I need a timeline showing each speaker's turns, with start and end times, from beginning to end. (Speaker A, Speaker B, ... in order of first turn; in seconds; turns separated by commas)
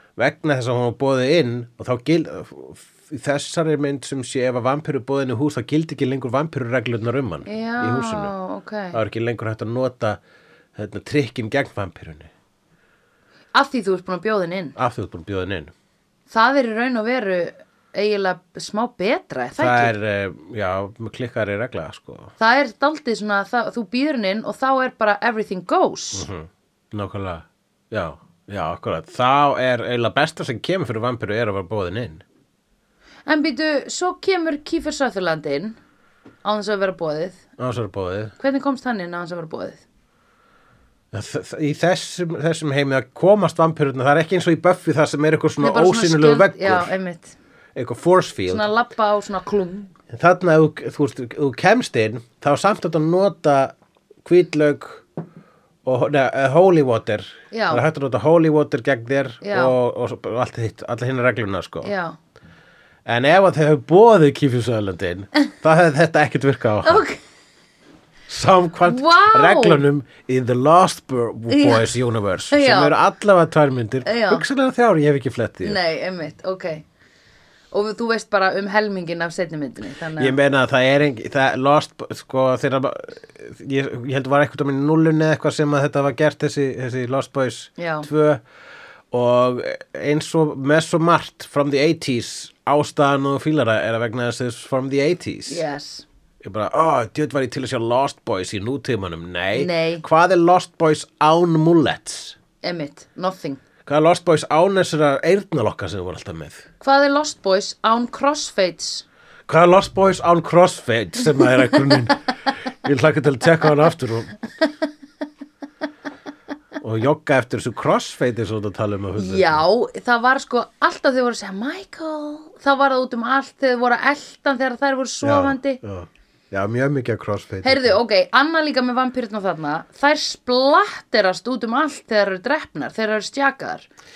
Speaker A: 0.2-8.3, Speaker B: 7.5-9.0, Speaker A: 8.9-10.2, Speaker A: 10.8-12.3, Speaker B: 13.5-14.8, Speaker A: 14.8-15.7, Speaker B: 16.3-19.9, Speaker A: 19.6-22.3, Speaker B: 22.4-26.3, Speaker A: 26.1-32.2, Speaker B: 33.3-35.8, Speaker B: 36.4-37.4, Speaker A: 37.6-38.3, Speaker B: 38.4-39.8, Speaker A: 41.1-46.9, Speaker B: 45.6-47.4, Speaker A: 47.8-48.7, Speaker B: 48.5-49.9, Speaker A: 50.1-55.0, Speaker A: 55.9-61.9, Speaker B: 57.5-57.8, Speaker B: 59.4-59.7, Speaker B: 61.8-62.1, Speaker A: 63.1-67.0, Speaker B: 66.8-67.2, Speaker A: 68.3-75.8, Speaker B: 68.8-69.8, Speaker B: 71.5-72.0, Speaker B: 72.5-73.0, Speaker B: 74.0-74.5, Speaker B: 75.6-76.8, Speaker B: 77.7-80.4, Speaker A: 80.2-88.4, Speaker B: 87.8-88.1, Speaker A: 89.1-95.6, Speaker B: 95.5-96.1, Speaker A: 96.4-102.4, Speaker B: 99.5-100.0, Speaker B: 102.6-103.6, Speaker A: 103.9-106.7, Speaker B: 106.8-109.0, Speaker A: 109.5-112.3, Speaker A: 112.8-114.4, Speaker A: 116.8-119.6, Speaker B: 119.2-125.8, Speaker A: 125.2-128.0, Speaker B: 127.6-133.9